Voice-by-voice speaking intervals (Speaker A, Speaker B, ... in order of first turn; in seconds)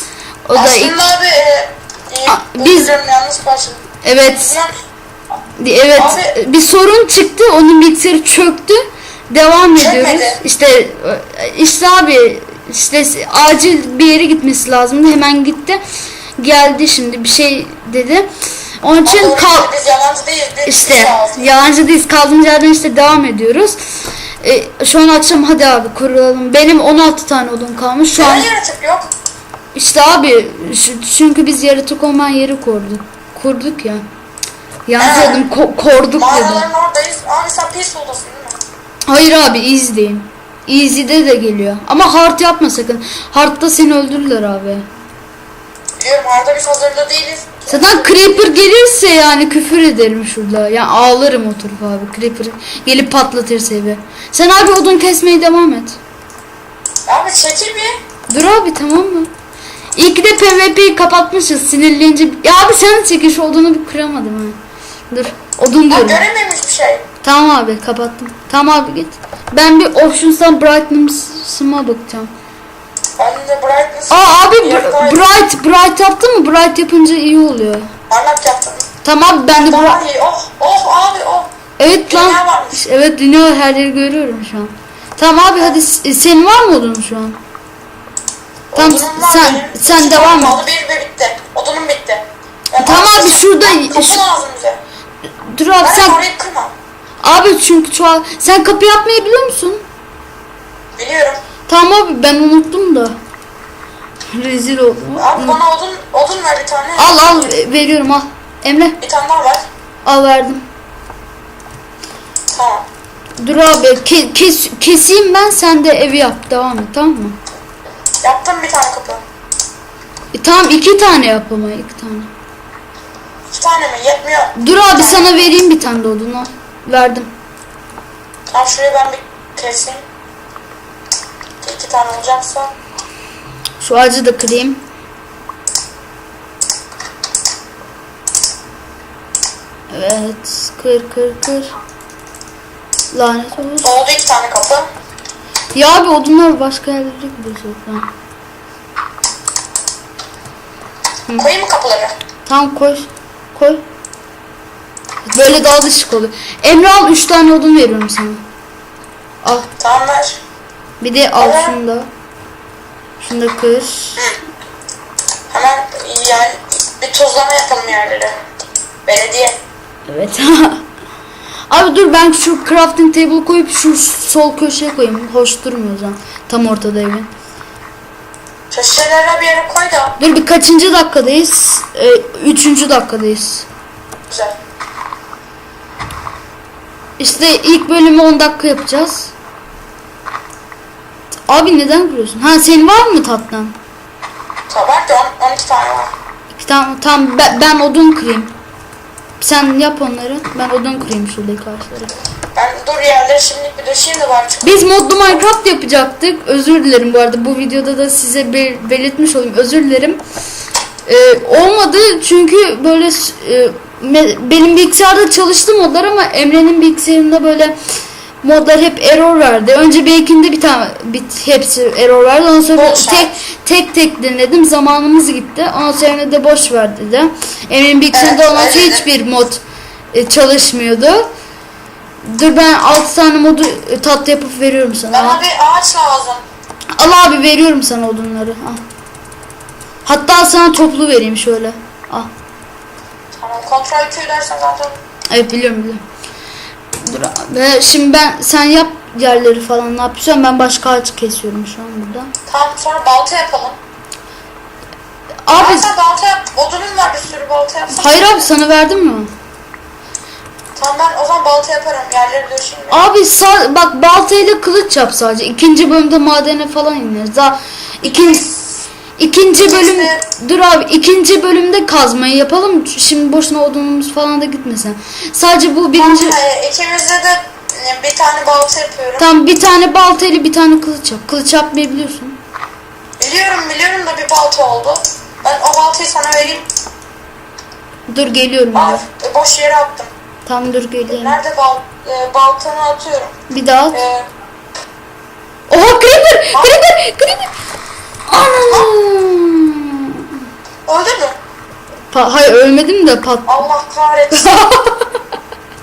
Speaker A: 0.5-0.9, 2.3-3.0, 4.0-4.6, 5.6-15.8, 16.4-18.3, 18.8-19.7, 20.6-23.8, 24.4-28.5, 29.7-34.0, 34.9-36.6, 39.1-44.8, 47.7-56.0, 58.3-59.3, 59.9-64.6, 65.1-66.2, 67.2-72.3, 74.1-77.9, 79.0-80.0, 81.8-87.4, 88.7-90.6, 92.8-94.2, 95.4-96.2, 97.2-99.8, 101.7-103.2, 104.3-105.6, 107.0-109.0, 110.0-110.6, 113.4-117.4, 120.3-122.3, 124.6-127.3, 133.8-134.8, 139.9-141.7, 143.1-143.9, 145.7-148.1, 152.4-153.8, 155.3-158.4, 159.4-159.7, 161.0-162.1, 163.2-164.2, 170.1-170.8, 171.7-177.3, 180.2-183.7, 187.2-189.3, 191.5-193.7, 196.5-198.5, 199.4-202.1, 204.6-210.2, 211.1-217.8, 218.4-229.6, 230.1-231.2, 232.2-235.4, 236.9-238.8, 240.0-242.3, 245.3-246.0, 247.0-252.3, 255.4-255.9, 257.9-259.3, 262.9-268.4, 269.2-276.4, 279.2-282.4, 288.1-289.0, 290.4-291.4, 293.5-294.0, 295.7-297.5, 298.3-300.2, 302.1-303.6, 304.3-305.0
Speaker B: 0.5-3.8, 4.4-4.7, 6.0-6.4, 9.7-10.4, 19.0-21.5, 28.2-29.1, 35.0-35.5, 36.2-38.6, 46.0-48.5, 57.1-57.9, 65.9-67.0, 73.2-75.2, 78.1-78.9, 79.6-81.5, 82.1-82.8, 88.7-94.8, 95.8-96.7, 101.0-101.4, 105.2-107.5, 109.0-109.6, 112.5-112.9, 118.2-119.2, 123.5-125.5, 128.5-130.0, 131.6-132.7, 143.8-144.9, 151.4-152.1, 159.8-160.4, 161.4-161.8, 165.5-168.3, 169.1-169.6, 178.7-180.2, 184.3-184.6, 194.7-196.1, 202.5-205.4, 222.7-223.4, 228.1-229.1, 235.1-236.4, 243.3-245.0, 252.5-253.8, 255.5-258.5, 260.8-263.0, 268.0-268.8, 269.5-270.2, 275.9-279.3, 283.2-286.7, 288.7-290.1, 291.1-293.3, 293.9-294.2, 296.5-296.8, 300.9-301.4, 303.4-304.7